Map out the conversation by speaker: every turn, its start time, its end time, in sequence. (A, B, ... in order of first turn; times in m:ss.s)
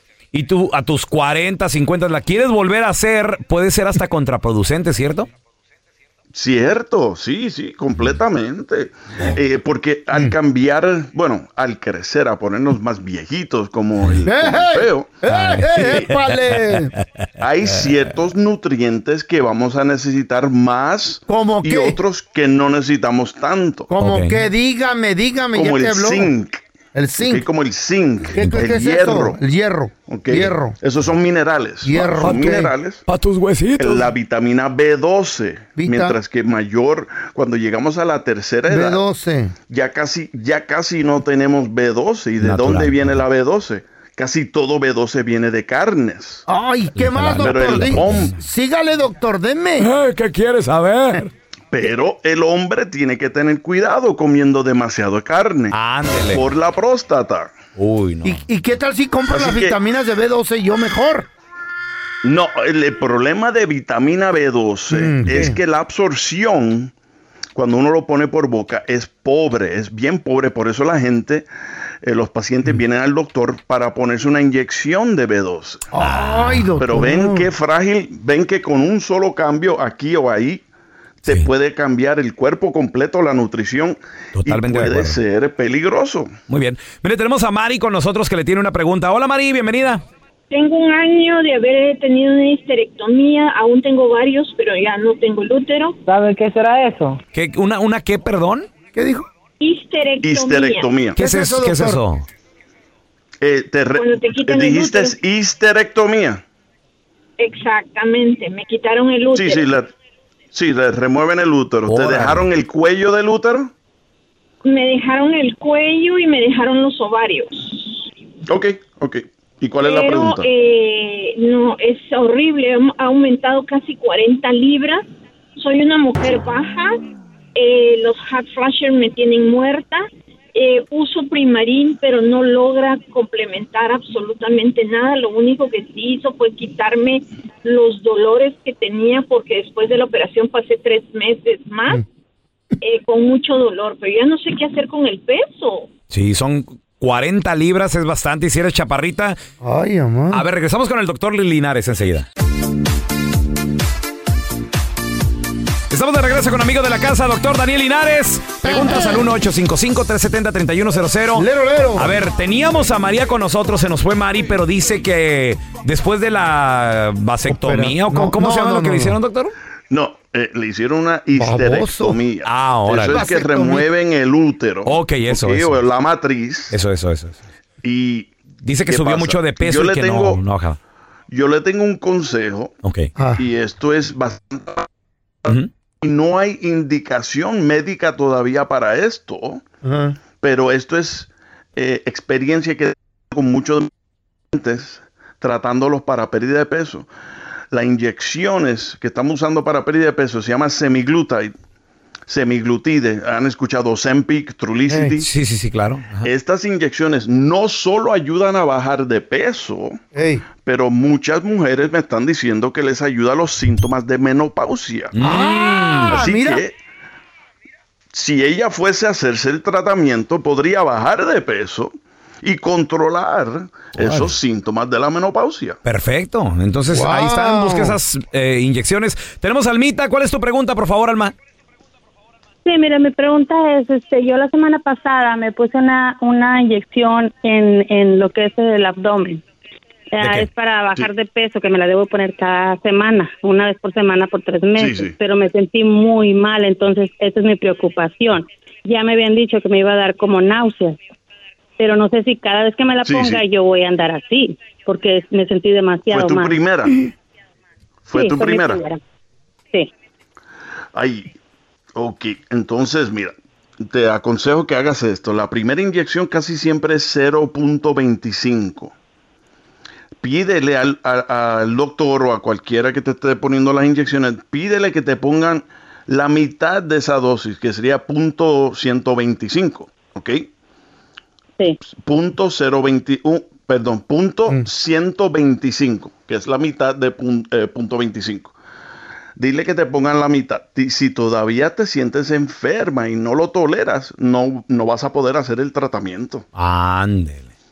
0:00.3-0:05.3 A
0:06.3-0:15.2 B
0:14.2-0:16.9 C
0:15.3-0:16.8 A
0:15.8-0:16.0 B
0:17.4-0:23.9 B
0:21.3-0:22.0 C
0:23.9-0:26.3 C
0:24.0-0:24.4 A
0:25.5-0:26.6 B
0:26.9-0:27.5 C
0:27.2-0:29.4 B
0:28.3-0:30.8 C
0:28.4-0:28.7 A
0:30.1-0:33.0 B
0:31.8-0:32.7 C
0:32.2-0:34.1 A
0:33.8-0:39.0 B
0:35.8-0:36.2 C
0:38.7-0:39.5 C
0:39.7-0:46.4 B
0:42.4-0:43.2 A
0:46.5-0:49.9 C
0:47.0-0:48.3 A
0:47.4-0:48.3 B
0:49.8-0:51.3 A
0:51.7-0:55.7 B
0:55.7-0:56.5 A
0:56.3-0:57.5 B
0:57.8-0:58.4 A
0:58.2-1:01.3 C
0:59.3-0:59.8 B
1:02.2-1:06.9 B
1:04.9-1:05.6 C
1:07.5-1:11.5 B
1:12.0-1:15.8 B
1:15.9-1:17.5 C
1:16.0-1:16.7 A
1:16.8-1:20.6 B
1:21.2-1:26.3 B
1:24.3-1:25.2 A
1:26.5-1:30.0 A
1:30.5-1:36.0 D
1:37.3-1:38.7 A
1:38.9-1:39.2 C
1:39.6-1:40.9 D
1:40.2-1:41.2 B
1:41.2-1:42.2 A
1:41.2-1:42.0 C
1:43.4-1:46.4 B
1:44.0-1:45.2 D
1:47.4-1:49.7 D
1:49.3-1:49.9 B
1:50.5-1:53.7 B
1:51.8-1:52.5 A
1:54.6-1:58.1 D
1:58.5-2:00.5 B
1:59.8-2:05.0 D
2:05.6-2:07.0 D
2:07.5-2:22.0 D
2:22.8-2:25.9 D
2:26.1-2:29.4 A
2:29.6-2:30.4 C
2:30.3-2:32.2 A
2:35.9-2:49.5 A
2:38.6-2:39.2 C
2:41.3-2:42.2 C
2:47.5-2:49.2 C
2:49.9-2:56.8 B
2:51.3-2:52.2 C
2:52.4-2:53.3 A
2:53.1-2:53.9 C
2:54.8-2:55.8 A
2:56.7-2:57.4 A
2:57.8-2:58.3 B
2:58.6-3:00.8 A
2:58.8-3:00.4 B
3:01.3-3:02.7 B
3:02.8-3:03.1 A
3:03.2-3:03.4 C
3:03.4-3:04.9 B
3:05.5-3:09.6 B
3:09.8-3:10.2 C
3:10.4-3:13.9 B
3:14.5-3:17.1 B
3:17.7-3:21.5 B
3:22.3-3:25.3 B
3:24.9-3:25.1 C
3:25.2-3:26.3 A
3:26.2-3:30.0 B
3:30.1-3:30.4 C
3:30.6-3:35.1 B
3:35.1-3:36.2 A
3:35.2-3:36.6 C
3:36.1-3:36.7 B
3:38.1-3:45.8 B
3:44.0-3:44.3 A
3:45.8-3:51.3 A
3:46.9-3:48.0 C
3:52.6-3:59.4 E
4:00.1-4:11.0 E
4:00.2-4:00.5 A
4:04.8-4:05.2 B
4:11.8-4:16.6 E
4:13.0-4:13.4 B
4:16.1-4:17.0 B
4:18.0-4:18.8 B
4:18.1-4:19.0 E
4:20.9-4:21.3 B
4:21.9-4:28.9 B
4:30.2-4:40.5 B
4:41.8-4:48.5 B
4:49.4-4:56.4 B
4:56.6-4:57.5 A